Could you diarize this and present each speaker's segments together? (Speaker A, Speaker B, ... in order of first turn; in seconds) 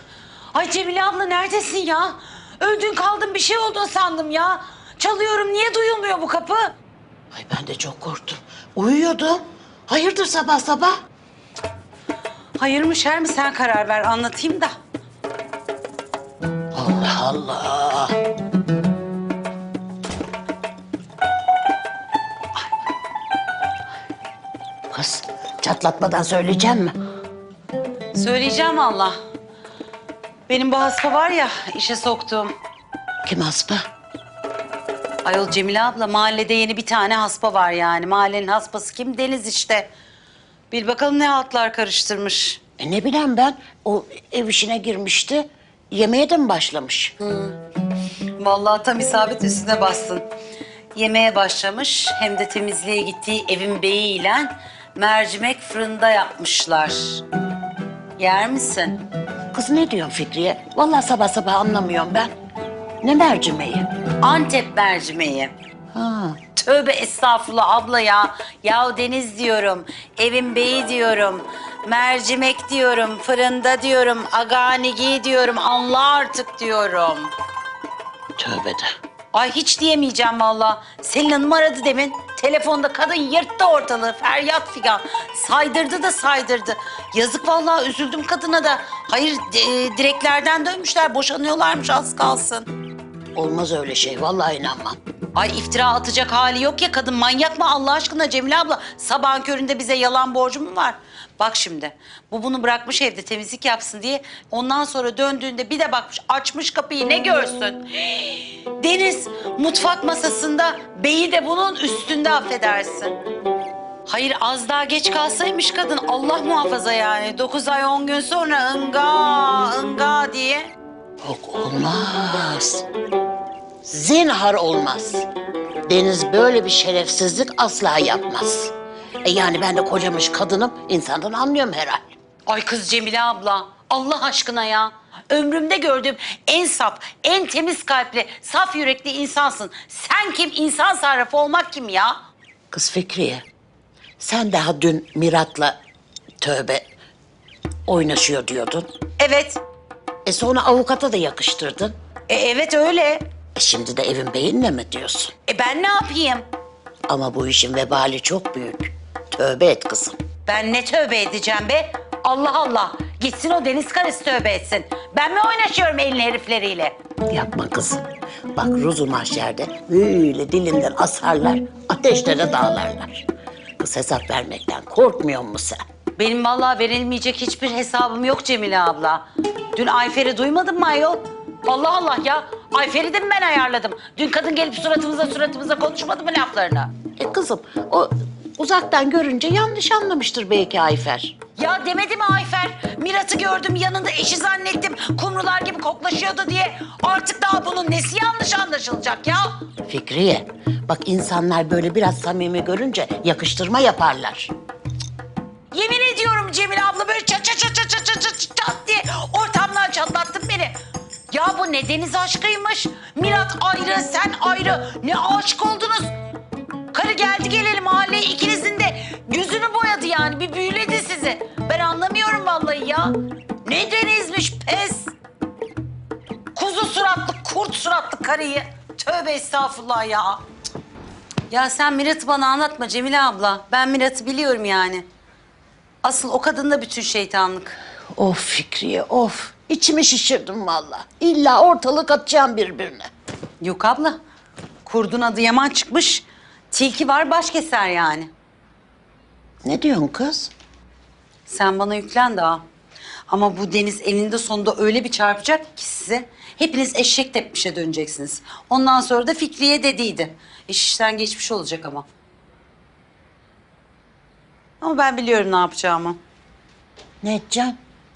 Speaker A: 0.5-6.8, 12.6-14.7, 28.1-29.1, 30.5-32.5, 35.2-39.9, 40.7-42.6, 47.2-47.6, 48.4-50.2, 51.0-57.2, 58.2-59.0, 64.2-65.5, 66.5-77.3, 79.3-92.7, 95.3-113.2, 114.1-120.7, 132.5-142.2, 149.2-149.6, 152.3-153.2, 155.5-156.4, 160.5-166.9, 176.2-187.0, 191.6-199.6, 205.7-210.7, 211.3-216.1, 216.9-225.1, 226.6-230.4, 231.5-235.1, 236.0-237.8, 243.6-244.2, 244.8-248.3, 251.5-252.6, 253.3-262.1, 264.8-266.2
Speaker B: 7.3-10.9, 16.7-18.2, 24.9-26.9, 33.2-33.8, 42.8-47.1, 59.5-62.3, 63.0-63.9, 65.9-66.4, 78.4-78.9, 93.3-95.0, 121.2-122.9, 123.8-125.3, 125.9-128.7, 129.2-132.1, 142.7-143.4, 144.2-145.8, 146.4-146.9, 147.9-148.9, 150.2-151.9, 153.6-155.3, 157.1-160.2, 167.3-175.8, 187.2-191.4, 199.9-204.5, 238.2-243.1, 249.6-250.5, 267.2-267.8